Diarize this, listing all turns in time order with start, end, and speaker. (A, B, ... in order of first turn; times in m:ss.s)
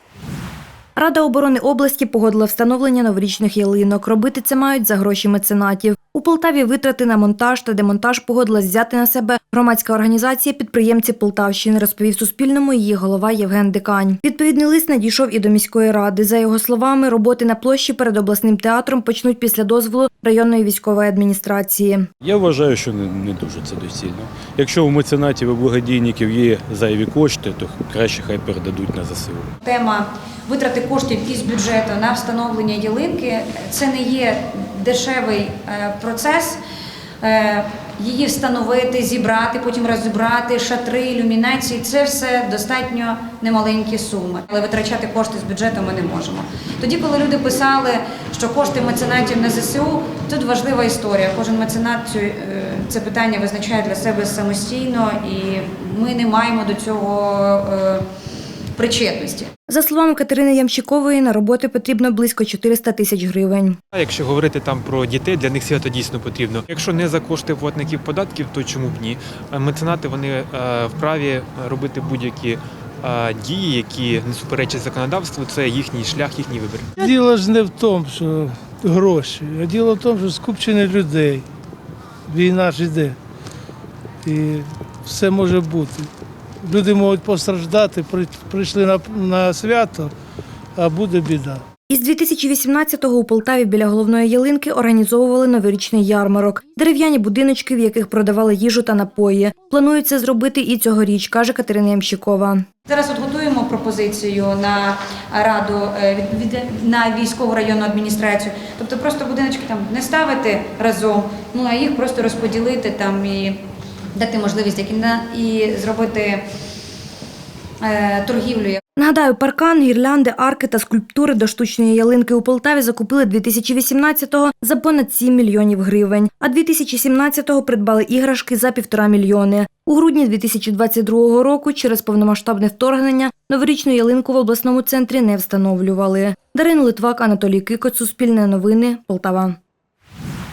0:01.0-0:22.1 A
0:22.2-0:29.5 B
0:29.6-0:36.6 C
0:37.2-0:58.0 C
0:58.8-0:59.5 C
0:59.7-1:03.8 A
1:03.9-1:16.9 D
1:17.0-1:21.4 E
1:22.3-1:23.1 E
1:24.2-1:26.1 E
1:26.6-1:30.1 E
1:30.8-1:31.6 E
1:31.9-1:42.6 A
1:42.8-1:53.6 C
1:54.1-1:56.4 C
1:57.8-1:58.8 C
1:59.0-2:19.6 A